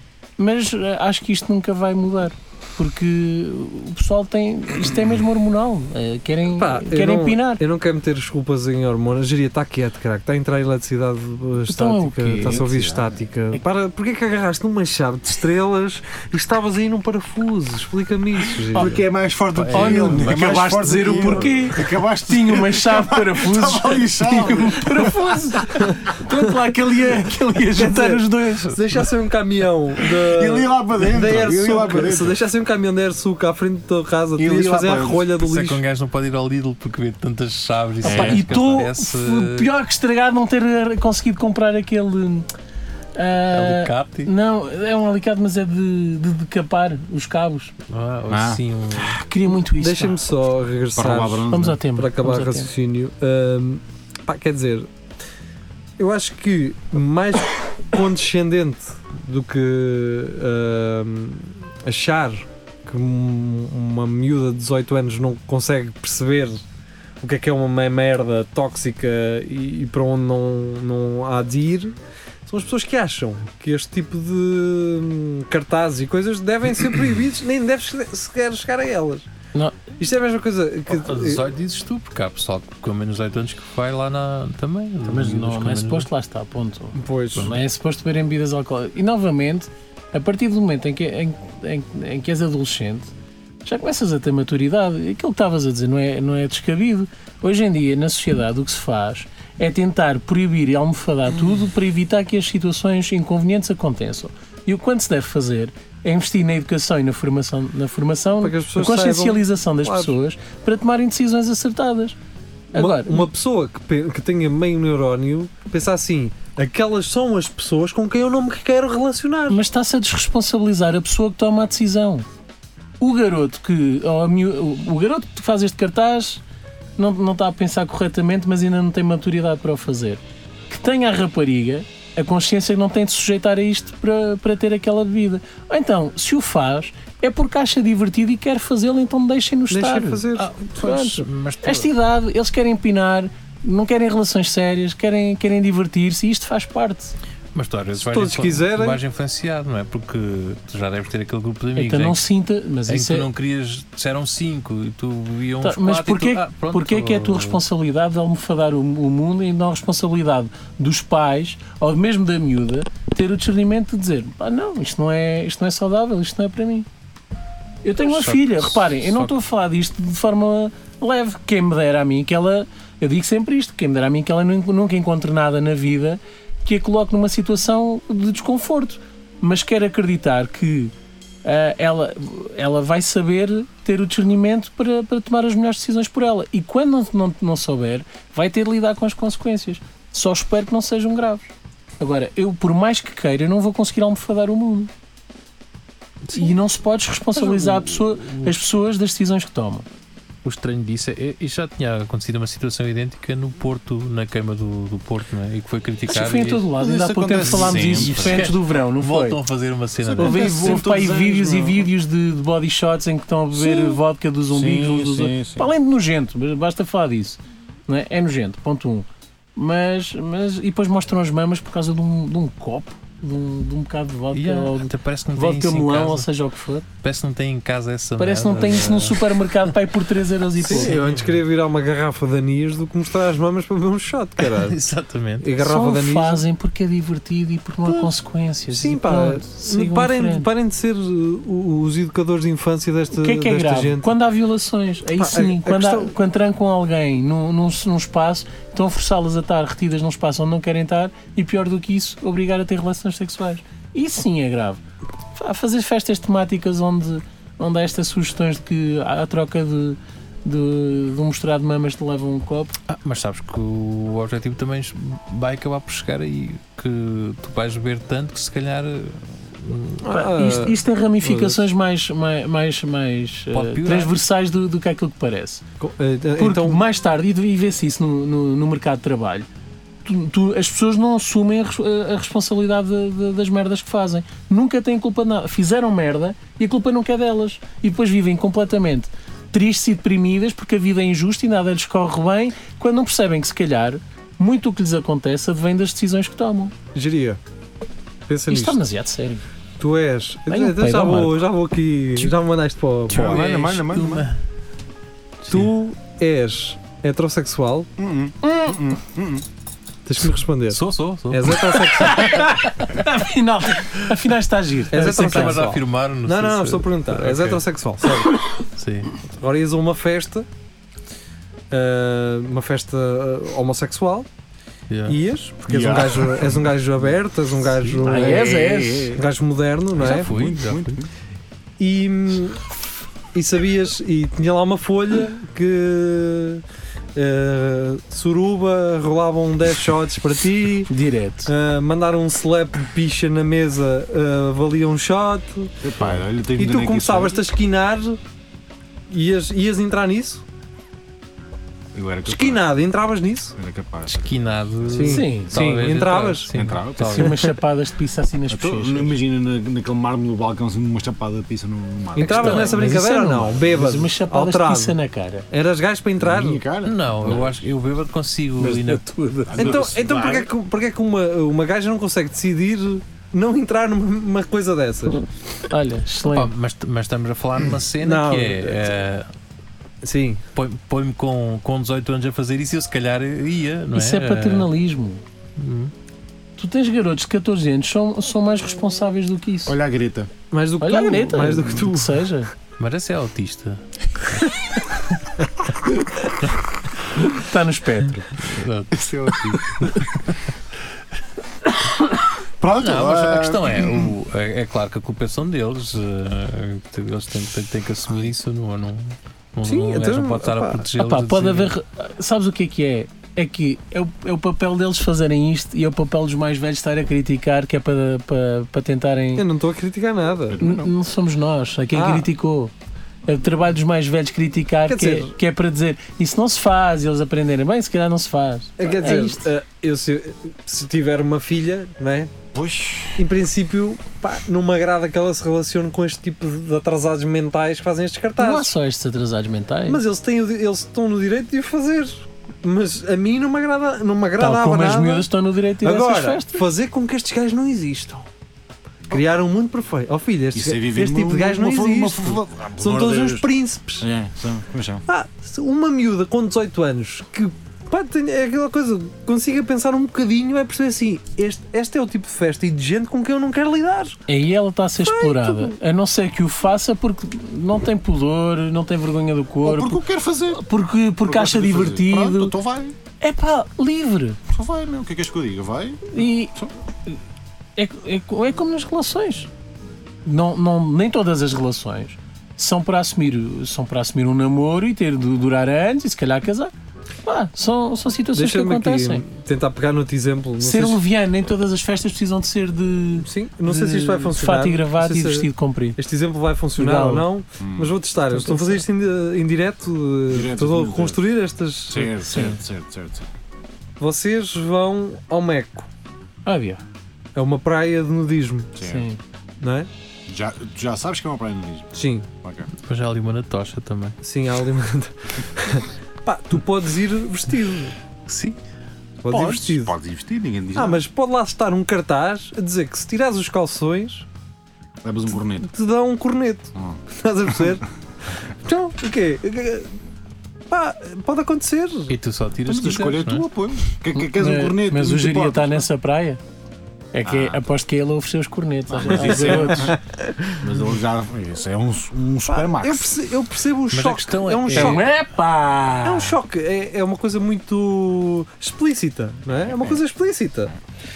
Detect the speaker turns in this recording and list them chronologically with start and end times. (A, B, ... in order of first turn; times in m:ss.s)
0:00.4-0:07.6 A
0:06.5-0:19.0 B
0:11.7-0:12.7 A
0:12.4-0:13.1 C
0:18.7-0:25.2 C
0:18.7-0:19.0 A
0:19.5-0:20.6 D
0:19.7-0:28.8 A
0:27.7-0:35.8 B
0:30.2-0:32.4 C
0:34.4-0:35.2 C
0:35.4-0:39.7 D
0:38.0-0:42.5 A
0:38.0-0:38.5 C
0:43.2-0:47.7 A
0:43.5-0:44.3 D
0:47.9-0:49.2 D
0:48.3-0:48.6 C
0:49.0-0:50.2 A
0:49.6-0:54.9 B
0:51.0-0:51.8 C
0:51.5-0:52.7 A
0:56.0-1:06.6 B
1:07.2-1:19.3 B
1:20.0-1:21.5 B
1:20.9-1:26.1 D
1:25.0-1:33.1 A
1:27.0-1:27.5 B
1:33.6-1:52.2 A
1:48.4-1:50.2 B
1:52.7-1:53.3 A
1:52.7-1:59.6 B
1:59.5-2:02.3 A
2:03.0-2:06.4 A
2:07.0-2:27.2 A
2:19.7-2:20.5 B
2:20.4-2:21.9 D
2:27.5-2:32.2 D
2:28.0-2:29.0 B
2:31.8-2:33.3 A
2:32.9-2:37.6 D
2:35.6-2:46.9 A
2:47.8-3:00.9 A
2:48.0-2:49.3 D
3:01.4-3:14.9 A
3:16.3-3:16.5 D
3:16.3-3:19.9 A
3:17.3-3:18.6 D
3:20.4-3:26.7 D
3:26.1-3:29.4 A
3:26.7-3:28.6 C
3:27.4-3:30.8 D
3:30.0-3:31.9 C
3:30.2-3:46.9 A
3:33.5-3:34.0 C
3:34.5-3:35.7 C
3:44.3-3:46.3 D
3:47.0-3:49.7 D
3:48.2-3:51.0 A
3:50.6-3:54.8 B
3:50.6-3:51.4 D
3:54.4-3:55.5 D
3:55.4-3:56.4 B
3:55.6-4:00.5 A
3:58.7-4:04.1 B
4:03.2-4:14.8 A
4:05.1-4:06.2 B
4:15.3-4:22.8 A
4:22.9-4:30.0 D
4:30.0-4:31.6 B
4:30.1-4:35.6 A
4:33.5-4:34.1 D
4:35.8-4:36.8 B
4:36.4-4:39.5 A
4:40.0-4:56.7 A
4:56.9-4:57.4 B
4:58.3-4:58.8 B
4:58.5-4:59.4 A
4:59.8-5:03.4 B
5:00.5-5:01.4 A
5:03.1-5:04.3 C
5:03.1-5:04.4 D
5:05.5-5:07.9 B
5:08.0-5:09.5 C
5:10.1-5:12.4 B
5:10.7-5:12.0 D
5:12.0-5:15.6 A
5:14.9-5:18.4 B
5:14.9-5:17.6 D
5:18.8-5:19.1 D
5:19.2-5:20.5 B
5:21.7-5:24.3 B
5:24.9-5:25.2 D
5:25.1-5:28.6 B
5:25.7-5:26.7 C
5:28.0-5:29.2 C
5:28.0-5:29.2 A
5:29.1-5:30.3 B
5:30.0-5:31.0 D
5:30.0-5:31.1 C
5:31.8-5:32.8 B
5:33.3-5:36.6 B
5:37.2-5:40.9 B
5:40.9-5:41.5 A
5:41.5-5:48.2 B
5:45.8-5:47.4 C
5:49.1-5:50.4 B
5:51.9-5:52.7 C
5:52.2-5:53.6 B
5:53.6-5:55.1 C
5:54.1-5:57.4 D
5:54.9-5:56.5 B
5:55.0-5:55.6 A
5:56.5-5:57.3 C
5:57.1-5:59.2 A
5:58.5-6:02.9 C
6:02.2-6:06.6 B
6:02.3-6:05.5 A
6:06.2-6:07.6 C
6:06.8-6:09.0 D
6:08.6-6:10.5 C
6:08.7-6:09.8 A
6:09.6-6:15.2 B
6:15.7-6:16.5 A
6:16.3-6:19.3 D
6:18.0-6:19.0 B
6:20.0-6:20.4 B
6:20.6-6:24.7 D
6:23.9-6:25.2 A
6:25.6-6:25.9 D
6:26.6-6:29.8 A
6:29.7-6:30.3 C
6:30.5-6:32.3 B
6:30.8-6:32.5 A
6:32.8-6:33.8 D
6:37.2-6:38.3 A
6:38.4-6:40.4 D
6:38.9-6:39.9 C
6:42.6-6:44.1 C
6:42.8-6:51.8 D
6:49.6-6:50.9 B
6:51.0-6:59.5 A
6:59.4-7:00.6 B
7:00.5-7:00.9 C
7:00.6-7:02.7 A
7:01.9-7:02.3 B
7:03.3-7:09.4 A
7:04.9-7:05.4 B
7:08.8-7:12.3 B
7:12.5-7:13.2 C
7:13.2-7:18.7 B
7:18.4-7:20.0 A
7:19.9-7:25.3 B
7:24.4-7:26.6 A
7:25.8-7:28.3 B
7:29.1-7:34.1 B
7:30.5-7:33.5 C
7:34.0-7:35.0 C
7:35.1-7:44.2 B
7:44.3-7:52.6 A
7:45.0-7:45.8 B
7:49.6-7:50.6 C
7:51.2-7:53.0 C
7:53.2-7:54.4 A
7:54.5-7:56.7 C
7:56.1-7:56.5 A
7:57.8-7:59.5 A
8:00.2-8:06.7 A
8:07.2-8:09.2 A
8:08.3-8:11.0 B
8:10.6-8:16.0 A
8:13.2-8:22.2 B
8:16.8-8:17.3 A
8:17.6-8:18.0 C
8:18.3-8:18.8 A
8:20.3-8:21.2 C
8:21.9-8:23.3 C
8:22.2-8:22.6 A
8:24.0-8:25.9 B
8:26.5-8:26.8 A
8:27.4-8:28.8 B
8:28.8-8:29.1 C
8:28.8-8:29.2 A
8:29.6-8:29.9 B
8:30.3-8:32.7 C
8:31.9-8:32.3 B
8:32.8-8:34.2 D
8:34.2-8:38.0 B
8:38.3-8:38.6 D
8:39.2-8:40.0 B
8:39.3-8:41.0 C
8:40.7-8:44.3 B
8:45.0-8:45.7 C
8:45.6-8:47.9 B
8:48.5-8:50.0 B
8:50.7-8:52.1 B
8:52.1-8:53.5 D
8:52.7-8:55.9 C
8:54.2-8:56.4 A
8:57.1-9:00.0 A
8:57.2-8:57.6 C
8:58.9-9:00.0 C
8:59.5-9:00.5 B
9:00.6-9:03.2 C
9:02.5-9:05.1 B
9:03.9-9:05.1 D
9:04.7-9:06.4 A
9:06.0-9:10.7 B
9:09.5-9:10.0 C